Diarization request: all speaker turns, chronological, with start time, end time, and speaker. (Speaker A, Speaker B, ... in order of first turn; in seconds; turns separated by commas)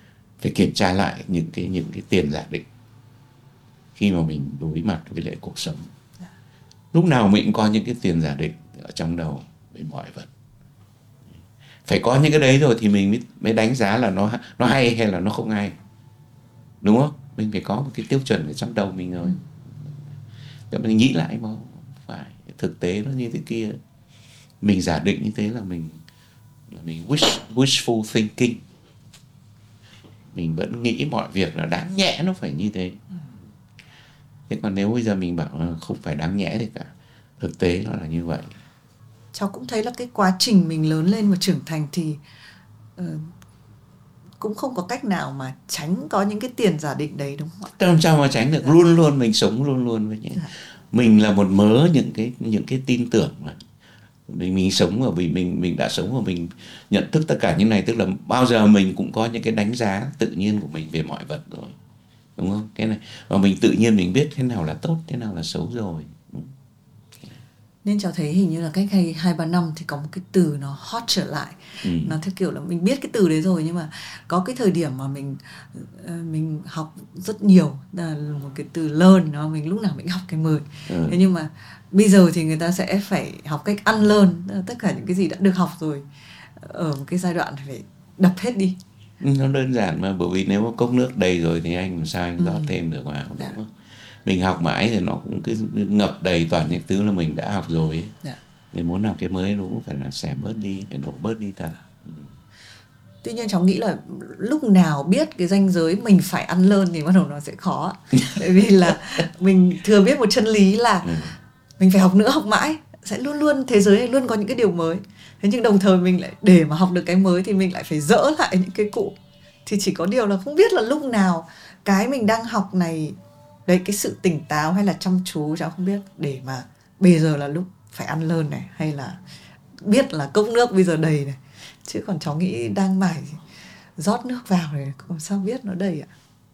Speaker A: 0.4-2.7, Speaker A: 4.0-5.9, Speaker A: 6.9-10.3, Speaker A: 11.8-15.8, Speaker A: 16.8-19.9, Speaker A: 20.7-23.8, Speaker A: 24.6-26.0, Speaker A: 26.7-28.6, Speaker A: 30.3-33.0, Speaker A: 34.5-38.5, Speaker B: 39.3-42.2, Speaker B: 43.0-43.3, Speaker B: 44.4-47.7, Speaker A: 47.8-53.6, Speaker A: 54.3-61.8, Speaker A: 62.4-66.5, Speaker B: 67.8-88.8, Speaker A: 71.8-72.2, Speaker A: 80.9-81.2, Speaker A: 89.2-93.7, Speaker B: 92.4-92.7, Speaker A: 94.2-98.1, Speaker A: 98.7-102.3, Speaker B: 103.2-111.1, Speaker A: 111.0-111.3, Speaker B: 111.8-129.2, Speaker B: 129.8-133.4, Speaker B: 134.0-136.1